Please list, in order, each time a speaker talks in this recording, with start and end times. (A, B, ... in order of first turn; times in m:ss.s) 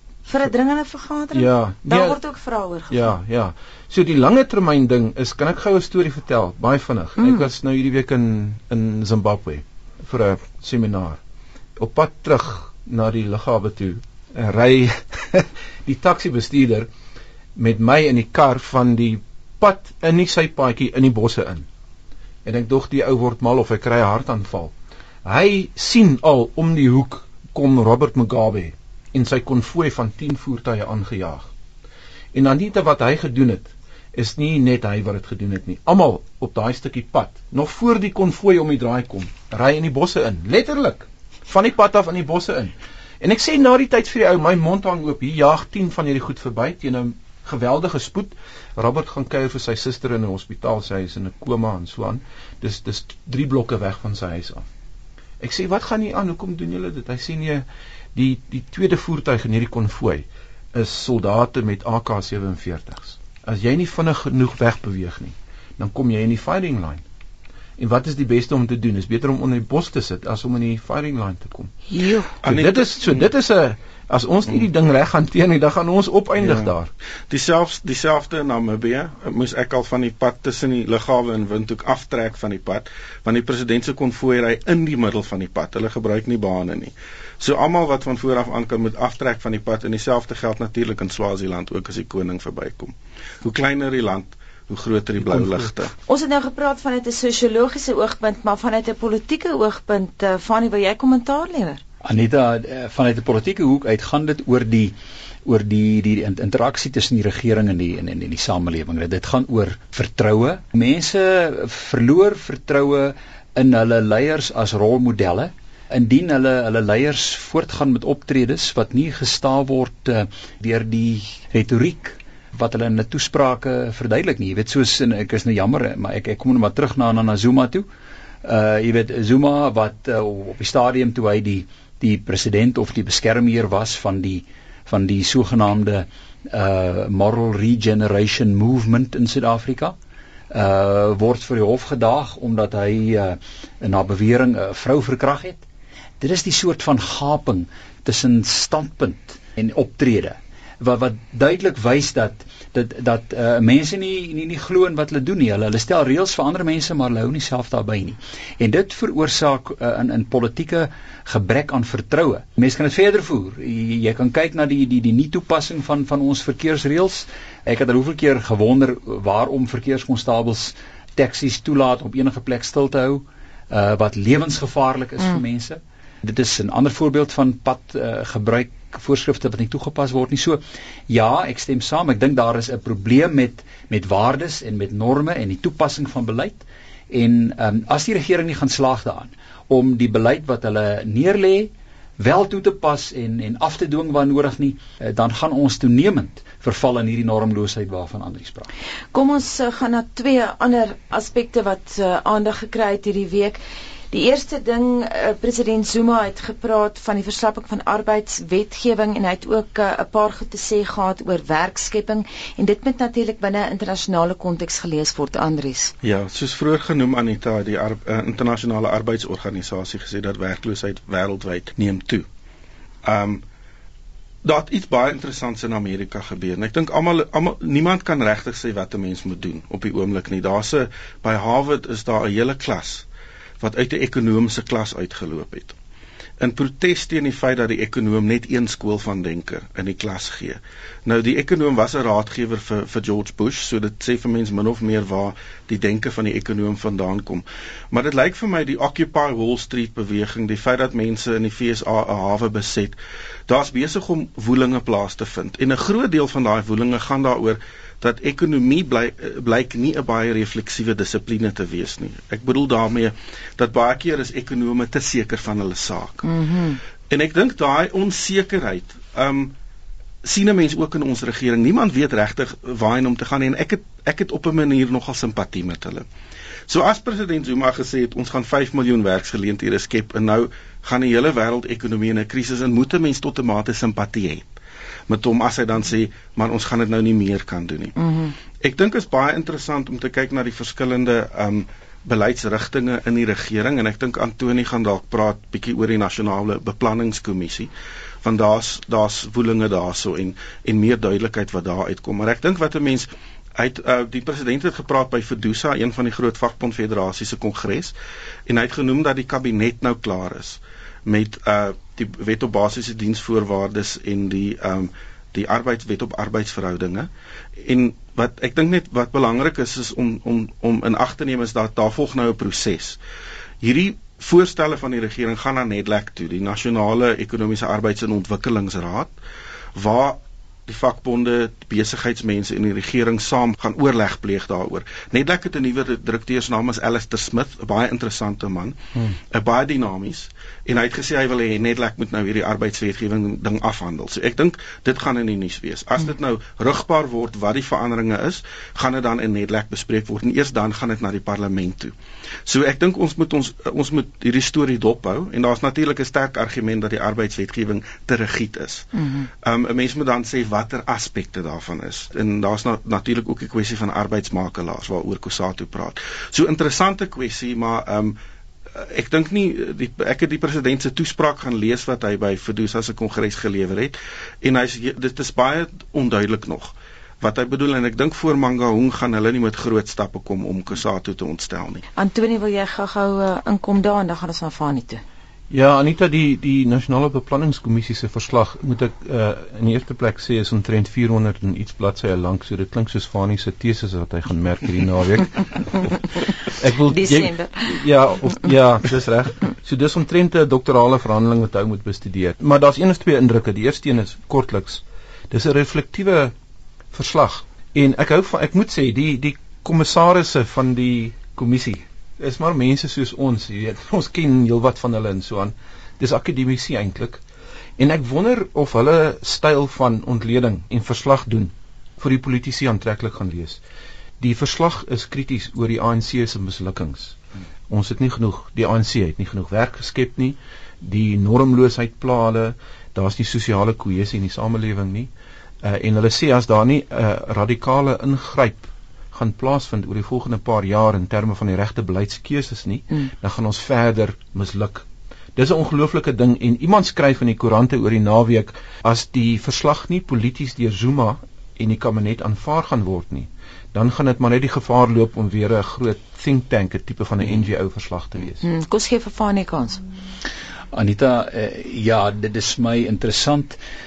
0:00.3-0:03.1 A
0:01.3-0:02.2 B
0:02.9-0:11.2 B
0:07.2-0:07.4 A
0:11.8-0:16.9 B
0:17.6-0:21.7 B
0:22.4-0:31.5 B
0:32.3-0:54.6 B
0:55.4-1:07.0 B
1:07.8-1:11.7 B
1:11.9-1:12.3 A
1:12.4-1:13.3 C
1:12.4-1:16.9 B
1:16.4-1:16.7 C
1:17.3-1:35.9 C
1:35.2-1:35.7 B
1:36.1-1:41.8 A
1:42.0-1:44.9 D
1:45.4-2:07.9 D
2:08.4-2:20.0 D
2:20.5-2:25.6 D
2:26.2-3:18.7 D
3:19.1-3:23.6 A
3:24.1-3:35.9 A
3:36.0-3:42.2 C
3:43.0-3:43.4 C
3:44.4-3:53.0 C
3:53.6-3:55.8 C
3:56.4-4:13.0 C
4:13.5-4:26.3 C
4:26.2-4:26.8 A
4:27.1-4:29.5 C
4:30.2-4:36.1 C
4:36.7-4:44.5 C
4:45.1-4:48.0 C
4:48.0-4:48.3 A
4:48.6-4:57.7 C
4:58.2-5:07.9 C
5:08.5-5:17.1 C
5:17.6-5:23.0 C
5:23.6-5:29.1 C
5:29.8-5:38.8 C
5:39.3-5:51.9 C
5:52.5-5:58.9 C
5:59.0-5:59.3 A
5:59.4-6:08.2 C
6:08.8-6:21.8 C
6:22.0-6:25.0 A
6:25.5-6:35.9 B
6:36.5-6:46.3 B
6:36.9-6:37.8 A
6:46.9-6:57.2 B
6:57.8-7:03.6 B
7:04.2-7:07.2 B
7:07.7-7:15.1 B
7:15.6-7:38.4 B
7:38.4-7:39.8 A
7:40.7-7:43.6 D